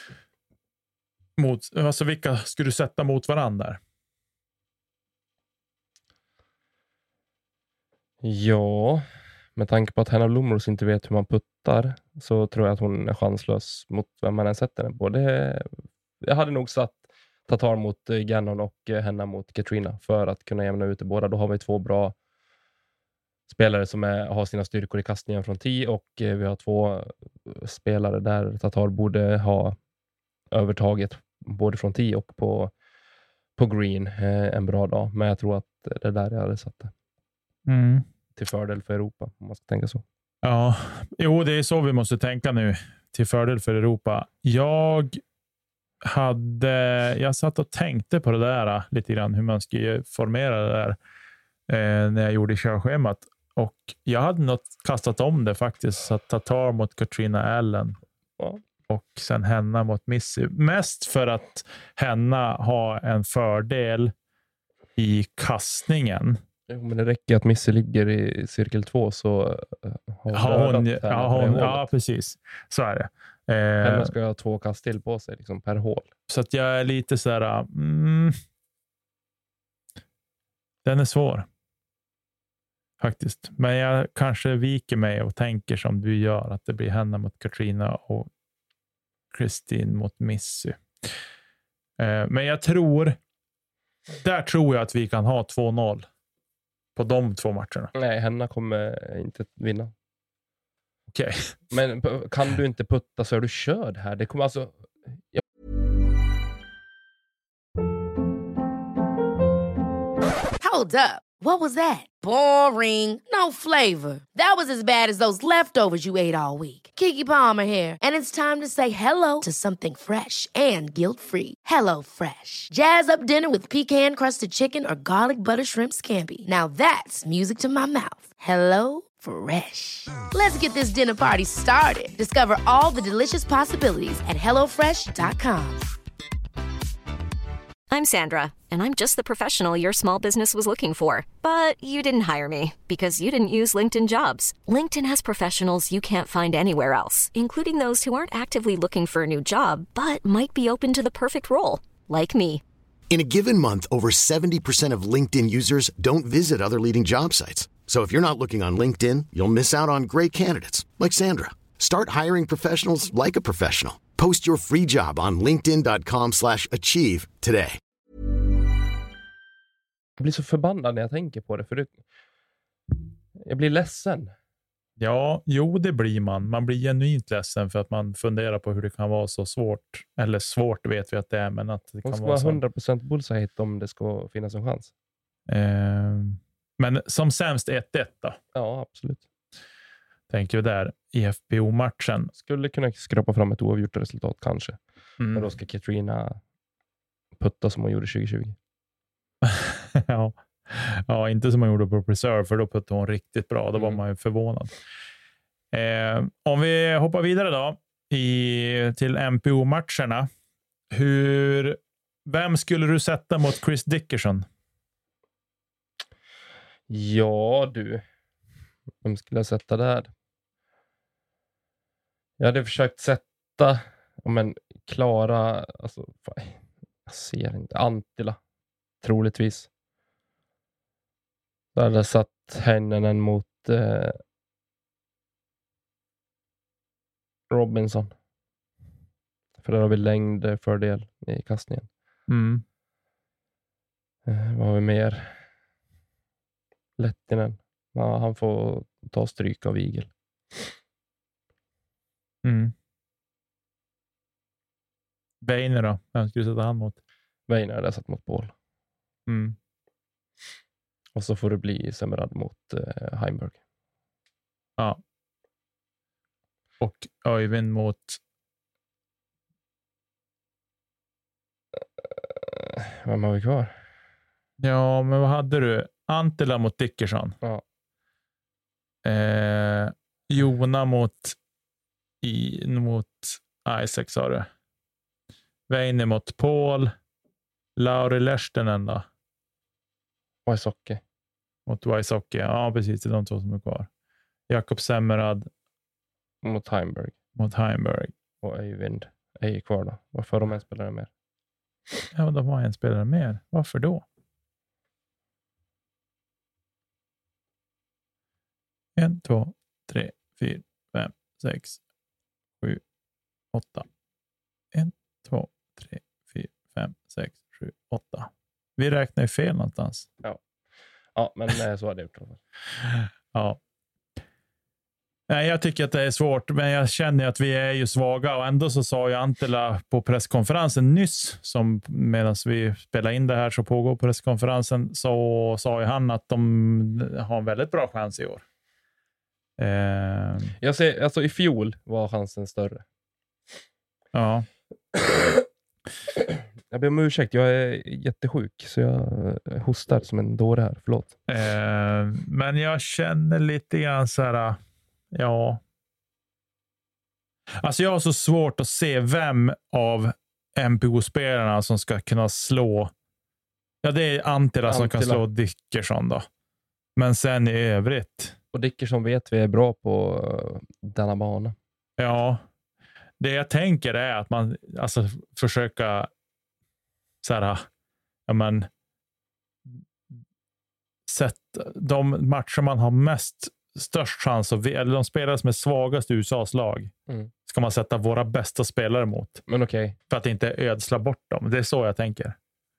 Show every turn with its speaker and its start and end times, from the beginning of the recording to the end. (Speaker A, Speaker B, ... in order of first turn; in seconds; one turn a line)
Speaker A: 1.4-3.8
Speaker B: 8.2-9.0
Speaker B: 9.6-15.7
Speaker B: 16.2-22.1
Speaker B: 23.5-29.8
Speaker B: 30.5-32.7
Speaker B: 33.6-36.9
Speaker A: 37.7-38.0
Speaker B: 38.4-40.0
Speaker A: 40.4-45.2
Speaker A: 46.0-51.0
Speaker A: 51.7-58.0
Speaker A: 58.9-64.1
Speaker A: 65.0-66.4
Speaker B: 66.7-71.9
Speaker A: 70.3-74.1
Speaker B: 73.8-76.1
Speaker A: 76.3-78.4
Speaker A: 80.8-81.5
Speaker A: 83.0-88.3
Speaker A: 89.3-90.8
Speaker A: 92.0-93.2
Speaker A: 94.1-96.0
Speaker A: 97.0-97.9
Speaker B: 97.9-99.9
Speaker A: 101.1-101.6
Speaker B: 101.7-105.4
Speaker C: 110.6-135.8
Speaker D: 137.9-152.6
Speaker E: 153.1-167.8
Speaker B: 170.2-172.0
Speaker B: 173.4-174.3
Speaker A: 175.0-182.6
Speaker B: 182.0-184.9
Speaker A: 185.5-188.4
Speaker B: 188.5-189.2
Speaker A: 190.3-192.3
Speaker B: 192.4-194.8
Speaker A: 195.2-195.5
Speaker B: 195.3-196.4
Speaker B: 197.4-198.6
Speaker A: 199.4-204.7
Speaker B: 203.7-204.0
Speaker A: 205.7-210.3
Speaker A: 210.9-214.4
Speaker B: 216.9-218.0
Speaker B: 219.0-220.1
Speaker B: 222.4-228.4
Speaker B: 229.0-229.7
Speaker B: 231.7-234.2
Speaker B: 237.5-238.1
Speaker B: 239.6-241.9
Speaker A: 242.3-242.6
Speaker B: 244.2-245.3
Speaker B: 247.0-250.1
Speaker A: 252.4-252.7
Speaker A: 255.4-257.0
Speaker B: 257.5-258.5
Speaker A: 259.3-259.6
Speaker B: 261.1-263.6
Speaker A: 266.8-268.2
Speaker B: 272.0-273.7
Speaker A: 274.6-277.4
Speaker A: 279.0-281.4
Speaker A: 282.2-284.5
Speaker A: 285.7-286.9
Speaker A: 287.8-289.1
Speaker B: 290.4-291.0
Speaker A: 291.6-293.9
Speaker A: 294.5-295.5
Speaker B: 296.4-297.1
Speaker A: 297.4-298.1
Speaker B: 298.4-301.1
Speaker A: 302.1-304.0
Speaker A: 308.9-311.8
Speaker A: 313.5-313.9
Speaker A: 314.7-320.1
Speaker B: 321.1-322.4
Speaker A: 322.8-323.6
Speaker A: 325.3-338.4
Speaker A: 339.6-340.5
Speaker B: 340.6-342.8
Speaker A: 344.1-344.5
Speaker B: 346.7-351.1
Speaker A: 351.3-354.6
Speaker A: 355.1-355.6
Speaker A: 357.6-362.9
Speaker A: 363.8-366.3
Speaker B: 364.7-365.2
Speaker A: 366.9-368.4
Speaker B: 368.5-371.6
Speaker A: 372.0-372.4
Speaker A: 373.2-376.1
Speaker A: 377.2-377.7
Speaker A: 378.3-378.7
Speaker A: 381.1-386.9
Speaker A: 387.4-389.4
Speaker B: 389.5-389.9
Speaker A: 390.1-392.4